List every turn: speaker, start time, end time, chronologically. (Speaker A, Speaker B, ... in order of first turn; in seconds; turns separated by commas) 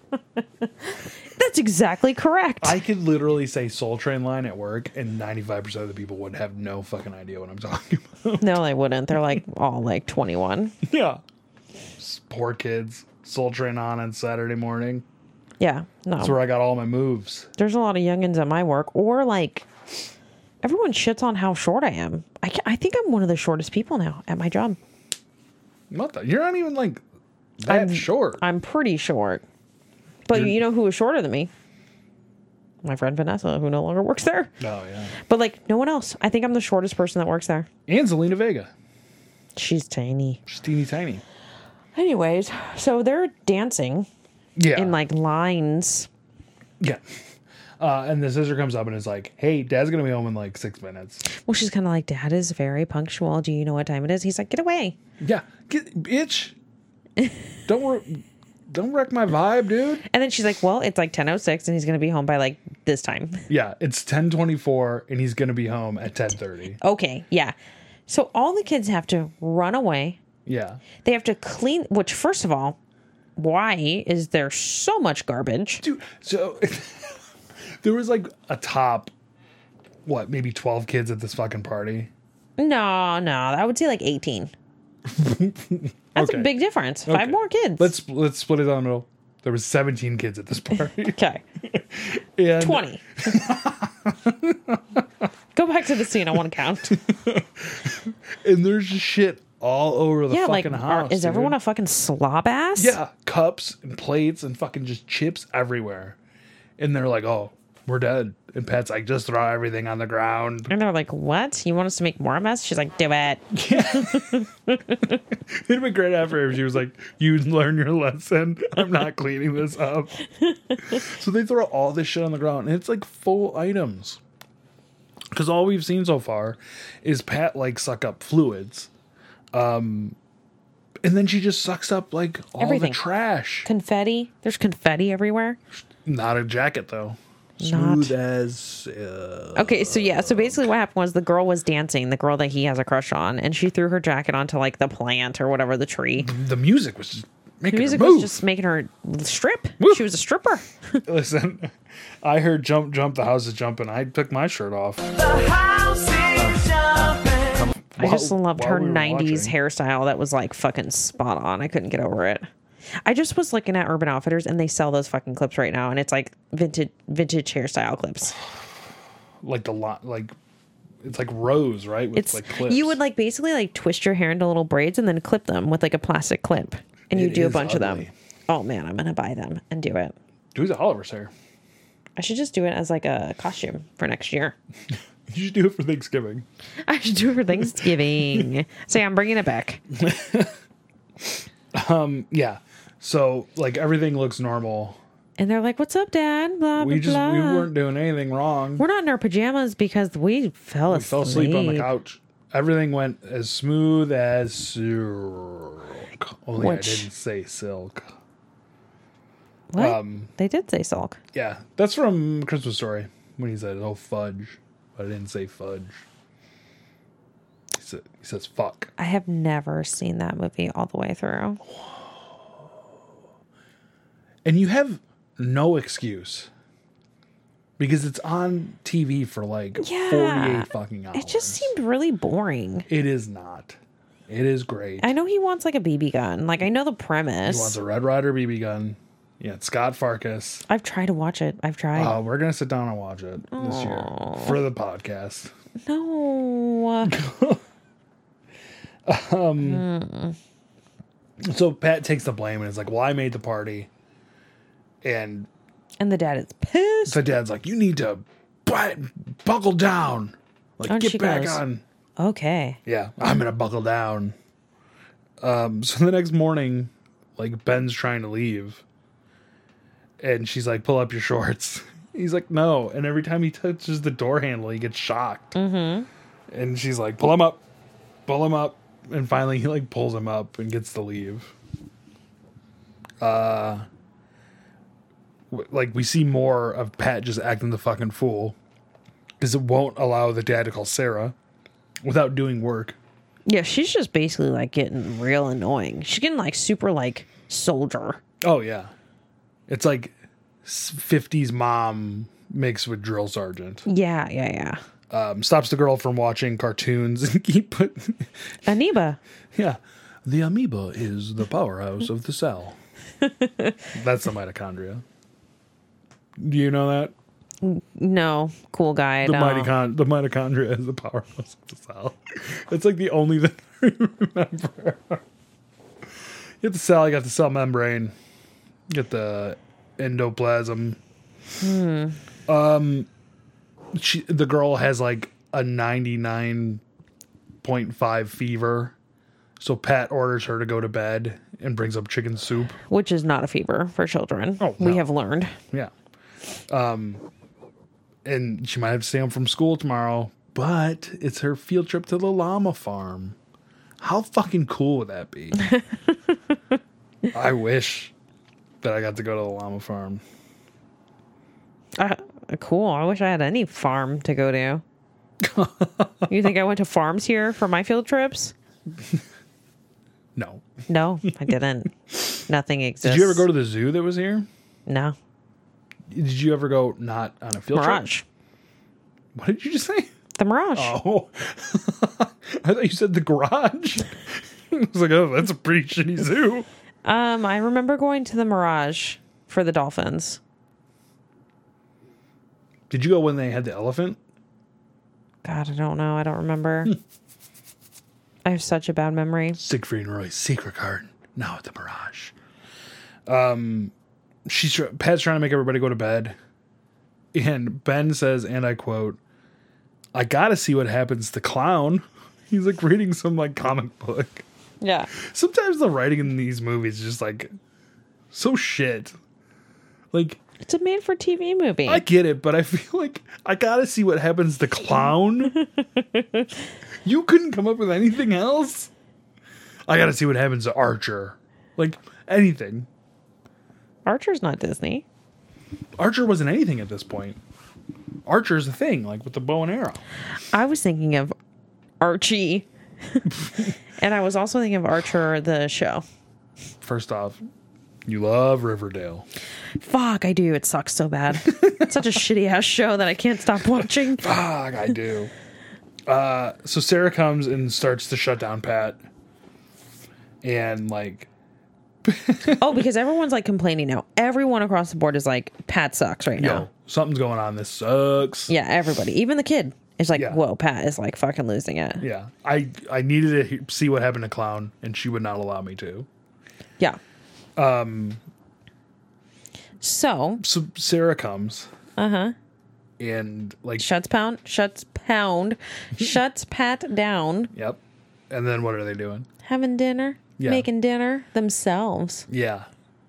Speaker A: 0.4-2.8, Speaker B: 2.6-8.6, Speaker A: 8.4-10.8, Speaker B: 10.8-11.2, Speaker B: 12.0-15.1, Speaker A: 15.6-16.4, Speaker B: 16.2-17.5, Speaker A: 17.6-19.7, Speaker A: 20.6-24.8, Speaker B: 25.9-27.0, Speaker B: 27.6-28.4, Speaker A: 27.7-29.4, Speaker A: 30.3-31.5, Speaker B: 30.3-30.6, Speaker A: 32.8-34.6, Speaker B: 34.6-35.1, Speaker A: 35.2-37.7, Speaker B: 37.9-38.7, Speaker A: 39.6-40.4, Speaker B: 40.5-41.2, Speaker A: 42.0-44.1, Speaker B: 44.6-45.0, Speaker A: 44.7-46.1, Speaker B: 47.8-51.2, Speaker A: 51.3-55.0, Speaker B: 55.2-56.6, Speaker B: 57.7-60.0, Speaker A: 60.1-63.5, Speaker B: 63.5-66.8, Speaker A: 66.8-67.5, Speaker A: 68.1-70.2, Speaker B: 70.5-70.8, Speaker A: 71.0-72.8, Speaker A: 73.4-75.8, Speaker B: 75.8-77.2, Speaker B: 77.8-79.1, Speaker B: 80.1-82.1, Speaker A: 82.6-84.5, Speaker B: 85.1-86.5, Speaker A: 86.2-87.9, Speaker B: 87.1-95.0, Speaker A: 91.0-91.4, Speaker A: 92.6-93.0, Speaker A: 95.5-97.0, Speaker B: 96.9-101.6, Speaker A: 100.3-103.0, Speaker B: 102.8-106.2, Speaker B: 106.8-110.7, Speaker A: 110.7-115.2, Speaker B: 113.5-114.5, Speaker B: 115.3-120.2, Speaker A: 120.3-121.0, Speaker B: 120.8-124.2, Speaker B: 125.3-128.9, Speaker B: 129.5-130.2, Speaker B: 131.0-133.7, Speaker A: 132.6-133.0, Speaker A: 133.7-135.6, Speaker B: 136.0-140.7, Speaker A: 137.6-138.2, Speaker A: 139.6-146.3, Speaker B: 146.2-148.4, Speaker A: 147.7-151.0, Speaker B: 151.1-155.0, Speaker C: 155.1-157.8, Speaker B: 157.9-159.5, Speaker A: 158.0-162.5, Speaker A: 163.0-168.4, Speaker B: 169.4-170.3, Speaker B: 171.0-173.0, Speaker A: 172.2-180.2, Speaker B: 177.1-178.1, Speaker B: 180.5-181.3, Speaker A: 182.2-184.6, Speaker B: 185.3-186.4, Speaker A: 186.9-189.8, Speaker B: 187.6-188.5, Speaker B: 189.9-190.6, Speaker B: 191.2-195.0, Speaker A: 195.4-197.7, Speaker B: 196.8-198.8, Speaker A: 198.8-201.9, Speaker B: 200.9-208.1, Speaker A: 206.6-207.1, Speaker A: 209.7-211.2, Speaker B: 209.8-210.3, Speaker B: 211.3-216.0, Speaker B: 217.7-218.9, Speaker A: 219.0-221.6, Speaker B: 224.4-226.5, Speaker B: 227.8-231.7, Speaker A: 229.8-232.9, Speaker B: 232.9-233.8, Speaker B: 234.3-235.1, Speaker A: 235.0-237.8, Speaker B: 237.5-240.7, Speaker A: 240.7-242.2, Speaker B: 241.9-245.5, Speaker A: 243.5-244.6, Speaker A: 245.9-247.2, Speaker B: 247.0-247.6, Speaker B: 249.1-249.8, Speaker A: 249.6-250.4, Speaker B: 251.4-253.9, Speaker B: 255.0-255.5, Speaker A: 256.0-257.3, Speaker B: 257.1-261.8, Speaker A: 260.9-261.6, Speaker A: 262.2-262.8, Speaker B: 262.9-264.4, Speaker B: 265.4-268.8, Speaker B: 270.2-275.6, Speaker A: 275.6-276.1, Speaker B: 276.5-277.6, Speaker B: 278.3-281.6, Speaker B: 283.2-283.9, Speaker B: 285.5-288.6, Speaker B: 289.4-291.4, Speaker B: 292.0-293.0, Speaker A: 293.5-298.2, Speaker B: 298.4-298.9, Speaker B: 299.7-303.9, Speaker A: 303.9-304.8, Speaker B: 305.1-308.5, Speaker A: 308.7-309.2, Speaker B: 309.5-312.8, Speaker A: 313.2-313.9, Speaker B: 313.9-315.0, Speaker B: 316.4-317.1, Speaker A: 317.6-319.7, Speaker B: 319.2-325.2, Speaker B: 326.6-328.1, Speaker B: 328.9-331.0, Speaker A: 331.6-332.2, Speaker B: 332.5-333.1, Speaker B: 333.9-336.8, Speaker B: 337.6-338.9, Speaker B: 339.6-342.8, Speaker A: 342.9-345.6, Speaker B: 344.6-345.0, Speaker B: 346.7-347.2, Speaker B: 348.2-353.4, Speaker B: 354.0-355.7, Speaker B: 357.3-358.1, Speaker B: 358.8-360.2, Speaker A: 362.0-364.8, Speaker B: 365.4-366.3, Speaker A: 366.3-368.5, Speaker B: 370.4-370.6, Speaker A: 370.9-373.5, Speaker B: 373.0-374.5, Speaker A: 374.9-375.2, Speaker B: 376.1-378.1, Speaker A: 377.7-378.2, Speaker B: 379.4-380.1, Speaker A: 380.4-381.0, Speaker B: 380.8-386.7, Speaker A: 387.1-390.4, Speaker B: 392.9-394.2, Speaker A: 395.4-397.0, Speaker A: 398.4-399.6, Speaker B: 399.6-402.3, Speaker B: 403.3-403.9, Speaker B: 404.5-406.4, Speaker B: 407.3-409.2, Speaker B: 410.1-414.4, Speaker A: 414.8-415.1, Speaker B: 415.2-417.5, Speaker B: 418.3-419.2, Speaker B: 420.1-420.4, Speaker A: 420.6-422.0, Speaker B: 421.9-425.6, Speaker A: 425.5-426.5, Speaker B: 427.0-428.9, Speaker B: 429.9-432.9, Speaker A: 434.1-435.1, Speaker B: 436.0-437.4, Speaker B: 438.3-440.0, Speaker A: 440.5-441.3, Speaker A: 442.0-446.0, Speaker B: 446.8-447.4, Speaker B: 448.1-449.3, Speaker A: 449.8-454.3, Speaker B: 451.4-452.0, Speaker B: 454.2-455.3, Speaker B: 456.1-459.0, Speaker B: 460.4-461.3, Speaker B: 462.1-462.9, Speaker A: 462.6-466.7, Speaker B: 466.4-468.5, Speaker A: 468.5-472.0, Speaker B: 470.1-470.4, Speaker B: 472.0-476.1, Speaker B: 477.6-478.2, Speaker A: 479.8-480.4, Speaker B: 480.4-481.7, Speaker A: 482.0-482.4, Speaker B: 483.0-483.9, Speaker A: 483.8-487.5, Speaker B: 487.5-489.3, Speaker A: 489.4-492.3, Speaker B: 490.4-490.7, Speaker B: 492.3-492.7